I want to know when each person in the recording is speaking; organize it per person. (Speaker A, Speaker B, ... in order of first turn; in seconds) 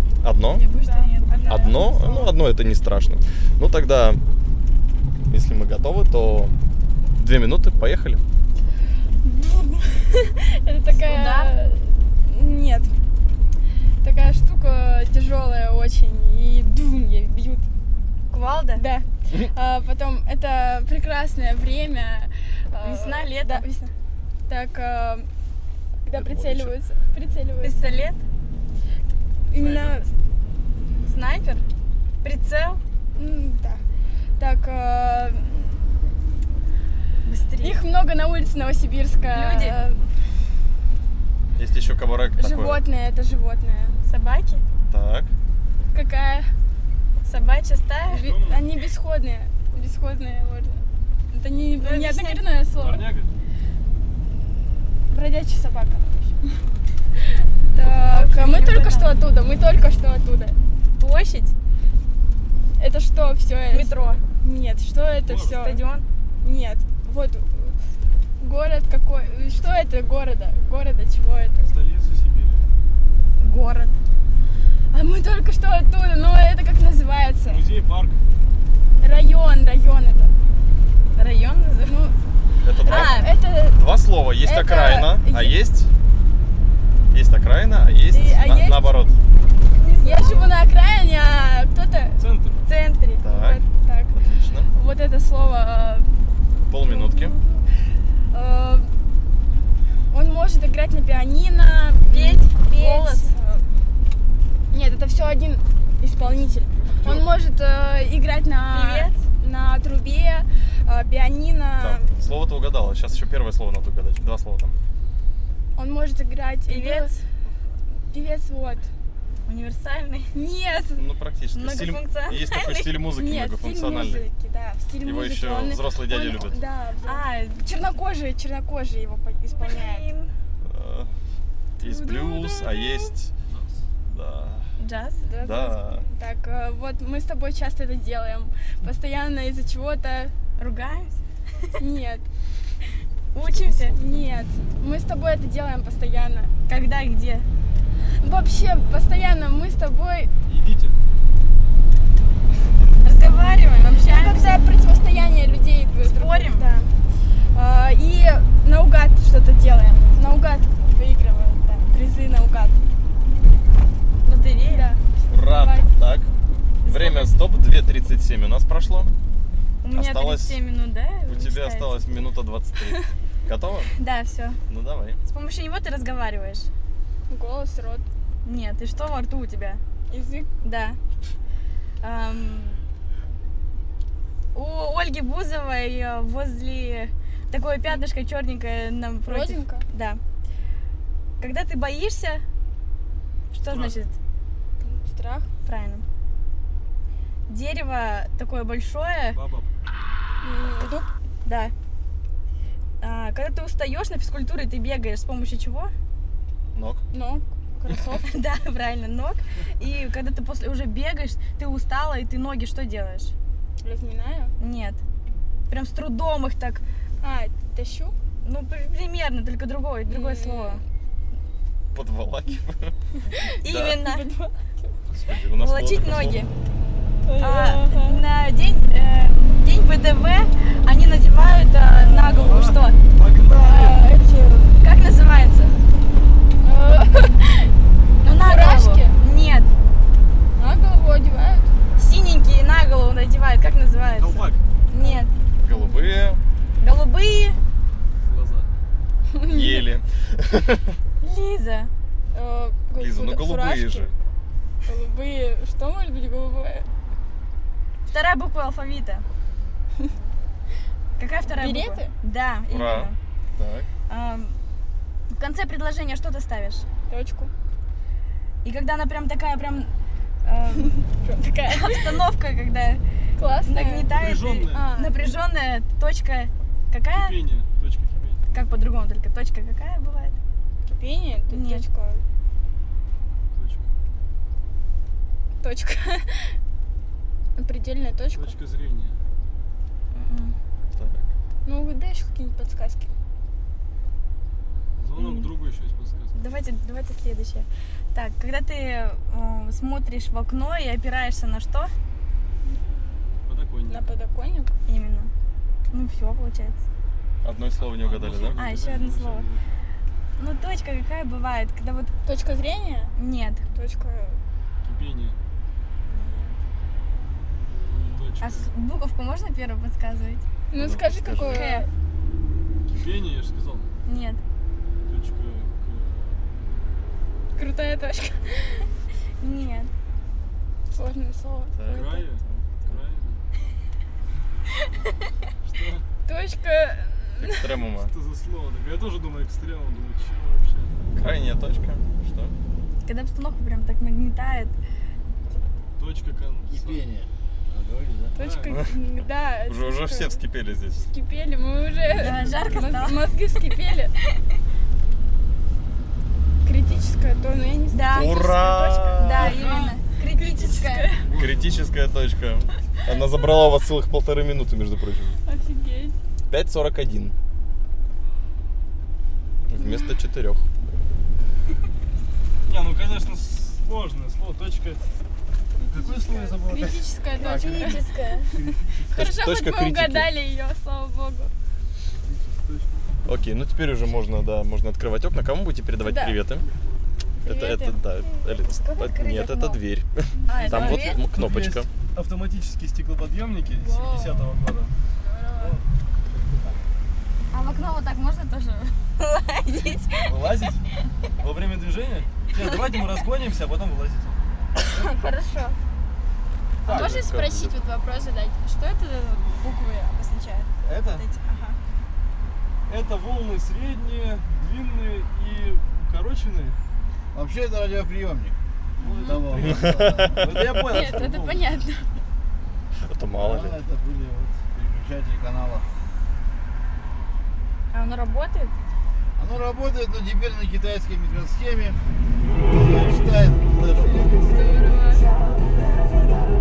Speaker A: 0.2-0.6, 1.5-4.2, 5.3-6.5, 7.2-8.2, 26.1-26.8, 41.5-42.8, 44.8-45.3, 82.6-85.9, 87.1-89.1, 93.2-94.7, 96.7-97.4, 107.0-107.3, 111.8-114.7, 121.0-124.2, 125.0-126.6, 130.6-131.1, 131.8-133.3, 134.1-134.7, 135.4-136.0, 165.3-166.3, 166.9-169.1, 169.9-170.6, 171.2-173.9, 174.7-175.2, 206.7-207.0, 221.9-222.9, 223.7-223.9, 225.1-226.5, 245.6-246.4, 249.4-251.0, 252.9-254.1, 262.7-263.9, 290.9-291.3, 307.4-308.6, 320.7-321.7, 331.7-333.0, 337.4-338.1, 341.1-342.5, 349.6-351.1, 358.1-359.7, 361.4-365.4, 366.5-367.3, 369.7-370.6, 379.1-380.3, 383.2-386.6, 387.4-391.9, 406.9-407.8, 419.6-420.4, 423.0-423.8
Speaker B: 0.5-1.8, 10.9-11.6, 18.3-18.8, 22.8-23.6, 27.6-28.2, 31.0-31.6, 32.2-32.8, 37.2-37.8, 39.3-39.8, 44.0-44.6, 47.2-48.3, 51.8-52.4, 57.8-59.1, 61.0-61.5, 63.7-64.2, 65.5-66.0, 73.4-73.9, 81.2-82.0, 82.8-83.3, 89.8-90.5, 102.1-103.3, 108.7-109.2, 116.7-117.2, 119.5-120.3, 121.5-123.0, 127.0-127.7, 129.5-130.3, 134.8-135.3, 140.6-141.2, 143.3-144.0, 146.7-147.5, 153.0-154.7, 156.0-156.7, 164.2-164.9, 166.8-167.3, 169.8-172.3, 173.9-174.6, 175.3-176.7, 178.4-179.8, 180.6-181.0, 182.0-182.8, 184.5-190.2, 191.4-192.4, 193.5-194.1, 195.6-196.0, 197.5-199.4, 201.4-201.7, 203.0-205.9, 208.0-213.3, 214.6-215.0, 215.7-216.8, 218.4-220.8, 223.6-224.3, 225.6-226.5, 227.4-233.0, 233.6-233.9, 234.8-235.8, 238.2-239.7, 242.0-245.3, 246.8-247.6, 251.2-251.9, 258.1-259.2, 261.2-263.1, 264.1-264.6, 265.3-266.9, 268.6-269.9, 270.4-271.1, 271.7-273.0, 273.6-277.4, 278.5-280.4, 281.5-281.8, 290.1-290.5, 295.1-295.5, 296.3-301.9, 304.9-305.3, 305.9-306.8, 308.6-309.5, 310.4-312.2, 313.1-313.6, 318.4-320.4, 321.4-321.9, 324.1-324.4, 329.4-329.9, 343.0-344.7, 352.1-353.2, 357.9-358.3, 359.1-361.1, 377.4-378.5, 390.5-391.2, 397.5-400.4, 405.0-405.7, 427.9-428.7
Speaker C: 0.7-2.3, 9.2-12.9, 14.0-17.6, 18.7-23.9, 24.5-25.3, 26.1-27.8, 29.5-30.1, 33.1-33.8, 34.4-36.0, 37.6-40.0, 42.4-44.0, 45.9-46.5, 48.1-53.1, 55.1-56.6, 57.2-60.6, 62.8-65.9, 66.4-67.8, 68.4-71.7, 74.9-77.6, 79.0-80.3, 81.8-82.2, 82.8-83.8, 84.4-85.5, 88.1-88.9, 90.0-94.2, 94.7-96.2, 96.8-97.6, 98.3-98.9, 100.1-103.7, 104.7-112.1, 115.7-117.1, 118.1-118.9, 120.3-121.0, 123.0-130.1, 131.8-133.1, 135.2-140.3, 141.8-142.2, 143.4-146.5, 148.2-150.3, 153.1-156.9, 157.5-162.8, 164.6-165.9, 177.3-178.1, 180.1-180.5, 189.2-189.8, 194.8-195.5, 200.4-201.1, 207.1-208.3, 213.8-214.5, 217.2-218.1, 220.1-220.8, 223.3-224.6, 227.2-228.2, 232.0-232.8, 233.4-234.7, 236.6-239.2, 240.6-241.7, 244.9-246.1, 249.3-249.9, 252.3-254.1, 254.8-256.9, 261.5-262.1, 267.1-267.5, 270.8-272.3, 273.4-275.1, 280.9-282.2, 285.6-286.5, 287.6-288.5, 291.6-293.1, 303.9-304.7, 312.2-313.1, 313.7-314.4, 316.1-316.5, 320.7-321.9, 327.6-328.9, 330.9-332.3, 336.2-337.7, 348.4-350.4, 351.0-354.1, 356.6-361.3, 365.4-366.2, 376.0-378.6, 379.1-381.5, 386.0-386.4, 387.4-389.8, 390.6-390.9, 393.9-394.3, 395.2-395.8, 405.3-405.7, 406.9-411.8, 419.0-419.4, 420.8-422.1, 434.4-435.3
Speaker D: 48.1-48.7, 52.7-53.3, 65.2-65.6, 71.6-72.6, 77.4-78.2, 92.2-92.6, 133.5-133.8, 143.8-144.2, 150.5-151.0, 193.6-193.9, 199.3-199.7, 244.2-244.6, 248.2-248.7, 274.1-274.9, 277.1-278.4, 283.5-283.9, 288.3-289.1, 295.0-296.4, 303.4-304.1, 307.8-309.6, 314.8-315.4, 317.9-318.7, 322.9-323.9, 325.1-326.4, 331.9-333.4, 335.6-336.0, 337.9-340.9, 346.0-347.0, 348.4-348.8, 352.3-353.1, 359.6-359.9, 361.3-361.8, 372.7-375.0, 375.8-377.9, 378.5-379.2, 382.2-383.2, 386.6-387.1, 390.7-394.9, 396.3-396.7, 400.3-400.8, 401.4-404.4, 410.9-411.2, 412.9-416.8, 419.0-421.7
Speaker E: 346.7-348.4, 417.3-418.5, 419.1-420.8, 423.4-425.8, 429.4-432.0, 432.6-435.2